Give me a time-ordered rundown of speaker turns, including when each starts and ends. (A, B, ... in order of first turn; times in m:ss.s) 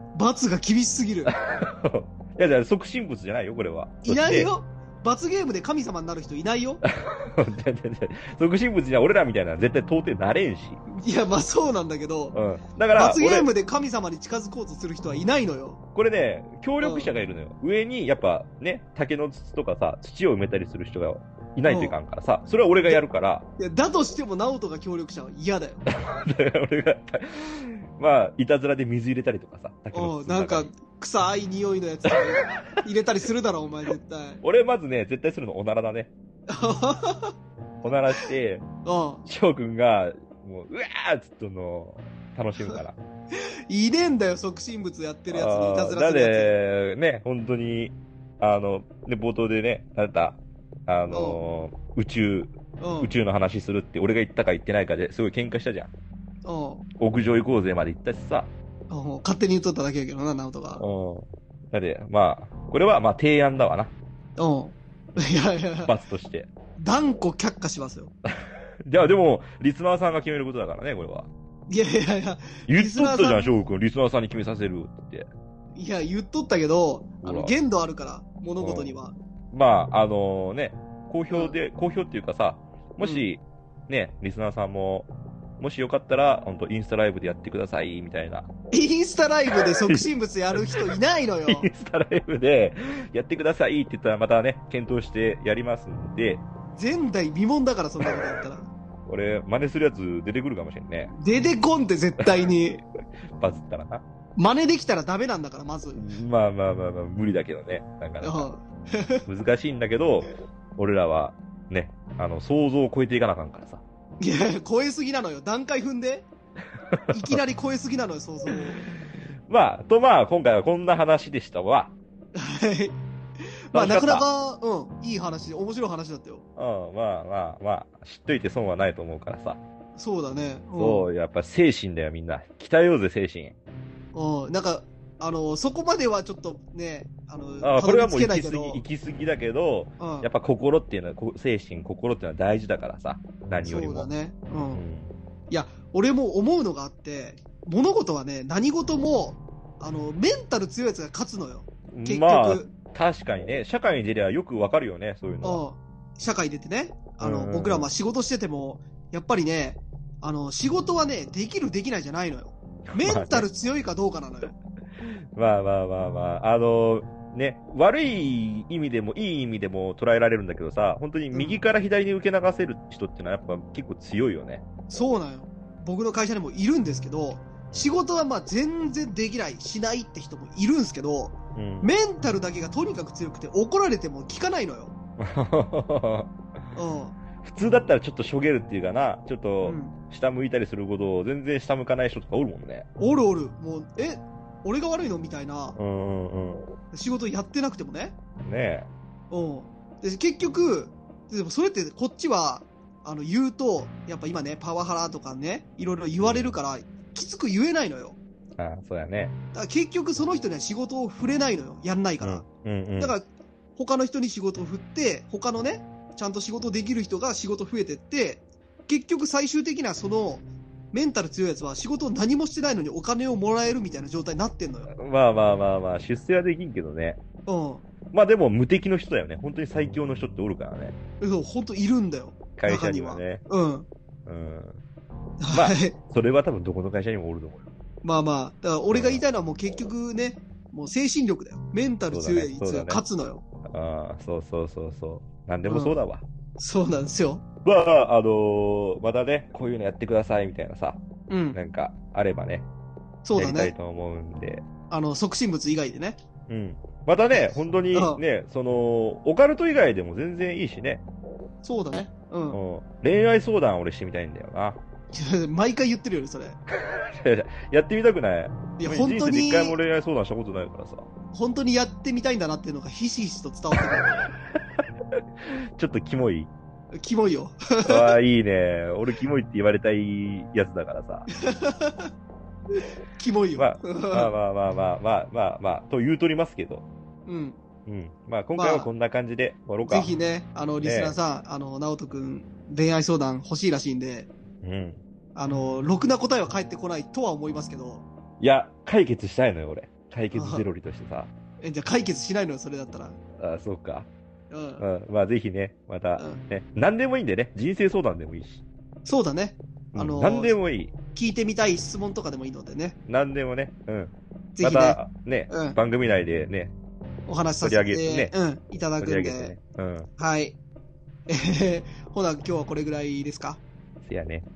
0:00.1-0:01.3 A
0:01.3-0:04.5 B
0:04.0-0:06.8 A
0:06.9-0:10.8 B
0:10.9-0:12.4 A
0:12.3-0:13.5 B
0:12.9-0:15.8 A
0:15.9-0:23.4 B
0:16.8-0:17.1 A
0:21.6-0:22.0 A
0:23.6-0:25.8 A
0:25.9-0:30.7 B
0:29.9-0:34.4 A
0:34.4-0:36.1 B
0:36.5-0:37.3 A
0:37.8-0:38.6 B
0:38.8-0:39.2 A
0:39.2-0:43.0 B
0:43.7-0:46.5 A
0:45.3-0:55.9 B
0:51.1-0:51.4 A
0:52.8-0:53.1 A
0:56.4-0:56.8 A
0:57.0-0:58.5 B
0:58.9-1:00.8 A
1:00.8-1:03.9 B
1:04.4-1:05.9 A
1:05.8-1:06.5 B
1:06.8-1:08.1 A
1:08.8-1:11.3 B
1:11.7-1:13.6 A
1:12.7-1:15.3 B
1:15.7-1:19.2 A
1:17.2-1:17.5 B
1:18.6-1:18.9 B
1:19.5-1:28.5 B
1:21.3-1:21.6 A
1:28.7-1:31.7 A
1:29.9-1:30.8 B
1:31.4-1:36.4 B
1:36.8-1:38.7 A
1:39.0-1:41.1 B
1:41.1-1:42.8 A
1:43.4-1:44.0 B
1:44.4-1:46.1 A
1:45.9-1:48.5 B
1:48.2-1:49.2 A
1:49.2-1:53.8 B
1:54.2-1:56.3 A
1:56.9-1:57.4 B
1:57.1-1:58.8 A
1:59.4-2:01.9 B
2:02.3-2:03.0 A
2:03.7-2:06.4 A
2:03.7-2:04.2 B
2:06.6-2:09.6 B
2:10.0-2:11.1 A
2:10.7-2:13.5 B
2:14.1-2:18.8 A
2:17.6-2:24.1 B
2:20.0-2:20.3 A
2:23.6-2:24.8 A
2:24.7-2:25.1 B
2:25.5-2:32.7 A
2:31.9-2:35.6 B
2:35.4-2:44.6 A
2:37.2-2:37.9 B
2:42.9-2:43.5 B
2:45.0-2:54.6 B
2:51.3-2:51.6 A
2:54.9-3:04.9 A
3:01.5-3:01.9 B
3:05.2-3:06.3 B
3:06.7-3:07.2 A
3:07.4-3:12.9 B
3:09.6-3:10.0 A
3:13.0-3:15.8 A
3:15.8-3:16.6 B
3:16.9-3:18.2 A
3:18.4-3:18.9 B
3:19.3-3:28.2 A
3:26.2-3:26.6 B
3:28.6-3:29.3 B
3:29.5-3:32.4 A
3:32.2-3:33.1 B
3:33.0-3:33.2 A
3:33.8-3:44.9 A
3:44.9-3:47.2 B
3:47.4-3:47.8 A
3:48.1-3:50.9 B
3:51.2-3:53.9 A
3:52.6-3:53.4 B
3:54.2-3:54.8 B
3:55.4-3:56.0 A
3:55.5-3:57.6 B
3:58.0-4:03.4 A
3:58.9-3:59.2 B
4:02.1-4:03.0 B
4:03.6-4:06.2 B
4:05.6-4:06.0 A
4:06.6-4:07.4 A
4:07.6-4:11.0 B
4:11.3-4:11.6 A
4:11.5-4:12.7 B
4:13.2-4:13.7 A
4:13.3-4:14.6 B
4:14.9-4:16.2 A
4:16.5-4:21.0 B
4:17.3-4:18.2 A
4:21.6-4:22.6 A
4:22.5-4:24.8 B
4:25.1-4:26.6 A
4:26.7-4:31.1 B
4:28.8-4:29.8 A
4:31.3-4:34.2 A
4:35.4-4:36.5 B
4:37.0-4:38.1 A
4:37.8-4:41.3 B
4:41.4-4:42.1 A
4:43.2-4:44.3 A
4:43.6-4:46.8 B
4:47.3-4:47.6 A
4:47.8-4:50.1 B
4:48.5-4:48.9 A
4:49.8-4:54.3 A
4:50.8-4:51.2 B
4:54.6-4:55.0 B
4:55.3-4:58.0 A
4:58.4-5:01.3 B
5:00.3-5:00.6 A
5:01.6-5:03.2 A
5:03.4-5:04.1 B
5:04.5-5:04.8 A
5:04.8-5:08.6 B
5:09.0-5:10.6 A
5:09.9-5:10.9 B
5:11.1-5:13.0 A
5:13.1-5:16.7 B
5:14.6-5:15.8 A
5:17.3-5:19.5 A
5:17.6-5:18.3 B
5:19.0-5:20.1 B
5:20.2-5:20.6 A
5:21.3-5:23.6 A
5:24.0-5:24.5 B